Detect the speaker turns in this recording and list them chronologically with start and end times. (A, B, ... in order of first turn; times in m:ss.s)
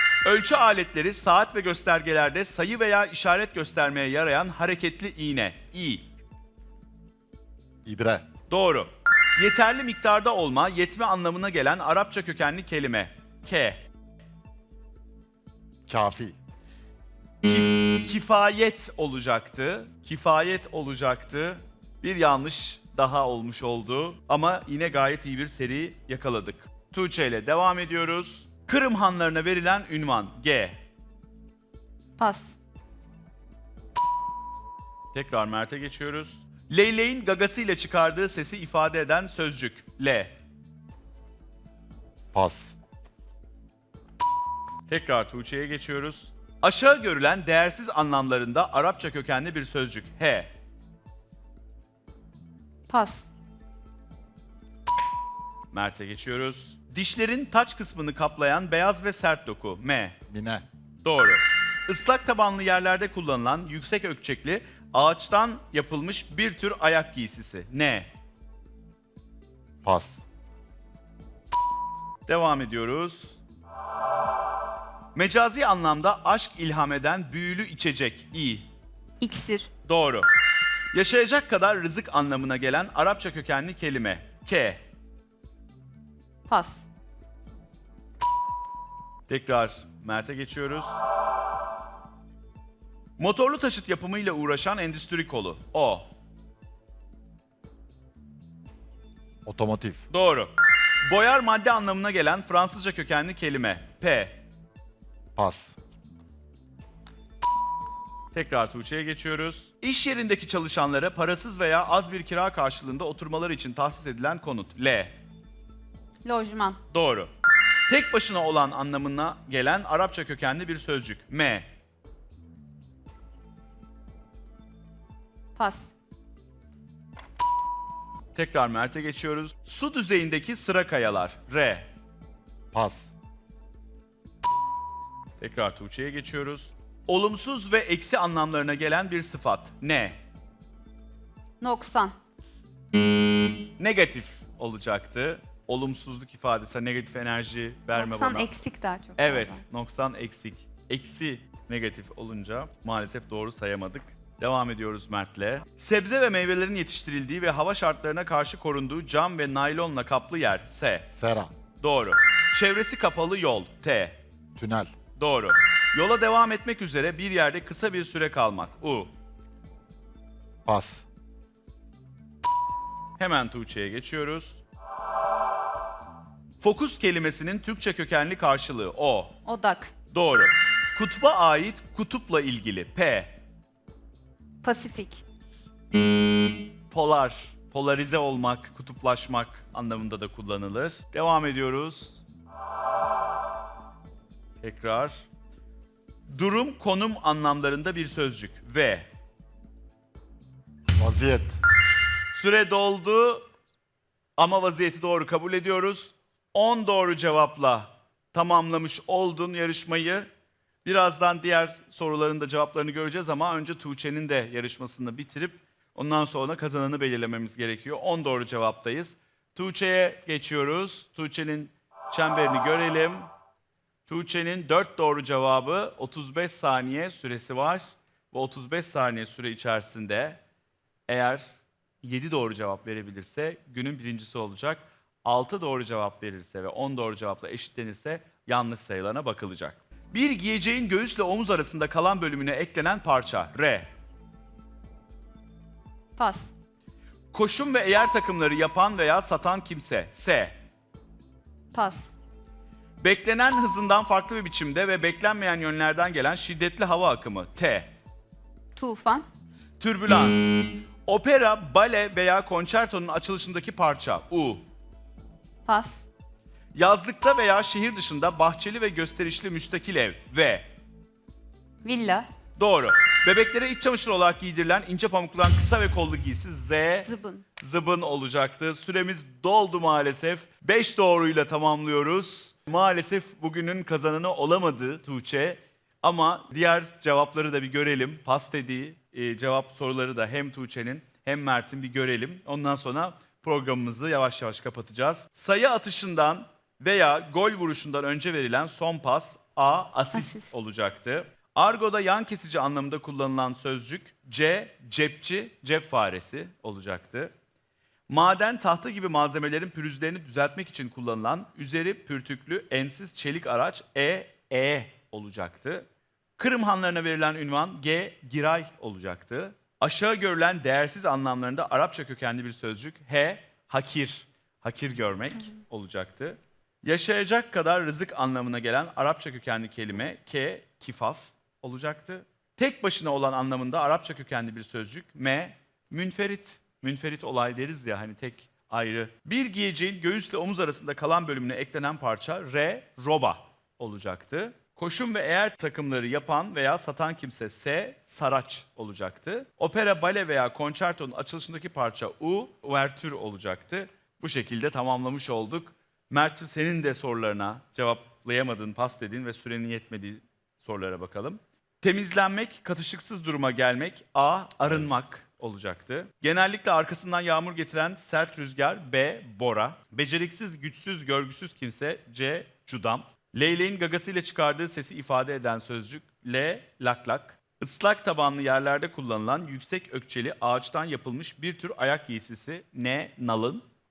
0:00.2-0:06.1 A
0:07.8-0:08.2 B
0:08.5-0:13.8 A
0:15.9-0:16.4 B
0:17.4-0:30.8 A
0:32.2-0:32.5 C
0:35.1-0:40.3 A
0:42.3-0:42.7 B
0:44.9-0:50.5 A
0:52.9-0:53.2 C
0:55.7-1:00.2 A
1:00.3-1:00.6 B
1:01.0-1:08.1 A
1:09.8-1:10.2 B
1:12.3-1:13.4 A
1:15.1-1:18.6 A
1:19.2-1:19.7 C
1:19.8-1:20.3 A
1:20.9-1:24.8 A
1:26.5-1:26.8 C
1:29.3-1:31.0 A
1:33.2-1:36.1 A
1:39.4-1:40.0 B
1:40.1-1:40.5 A
1:41.0-1:44.4 A
1:45.4-1:45.8 B
1:48.3-1:55.1 A
1:56.2-1:56.8 C
1:56.9-1:57.3 A
1:57.9-2:01.7 A
2:05.6-2:05.9 C
2:08.3-2:11.9 A
2:12.7-2:13.1 B
2:15.4-2:20.2 A
2:21.6-2:22.2 C
2:23.8-2:28.5 A
2:27.9-2:29.6 C
2:29.2-2:41.1 A
2:41.1-2:41.5 B
2:41.8-2:44.2 A
2:44.6-2:44.9 B
2:45.2-2:49.1 A
2:50.6-2:51.0 B
2:53.2-2:54.6 A
2:56.6-2:59.4 A
2:59.4-2:59.9 C
3:00.1-3:03.4 A
3:04.6-3:05.2 C
3:06.9-3:12.2 A
3:14.6-3:15.2 A
3:16.3-3:19.1 A
3:20.9-3:21.6 B
3:22.3-3:23.4 A
3:24.4-3:30.3 A
3:30.8-3:43.3 A
3:44.1-3:50.4 A
3:51.1-3:51.4 A
3:52.0-4:03.9 A
4:06.2-4:06.5 C
4:07.3-4:10.6 A
4:11.7-4:12.1 C
4:13.0-4:17.9 A
4:18.8-4:19.2 C
4:19.8-4:24.6 A
4:25.6-4:26.0 C
4:26.7-4:30.7 A
4:31.8-4:32.3 C
4:32.6-4:37.1 A
4:37.0-4:37.4 C
4:37.6-5:07.3 A
5:00.1-5:00.5 C
5:08.1-5:15.8 A
5:16.4-6:23.6 A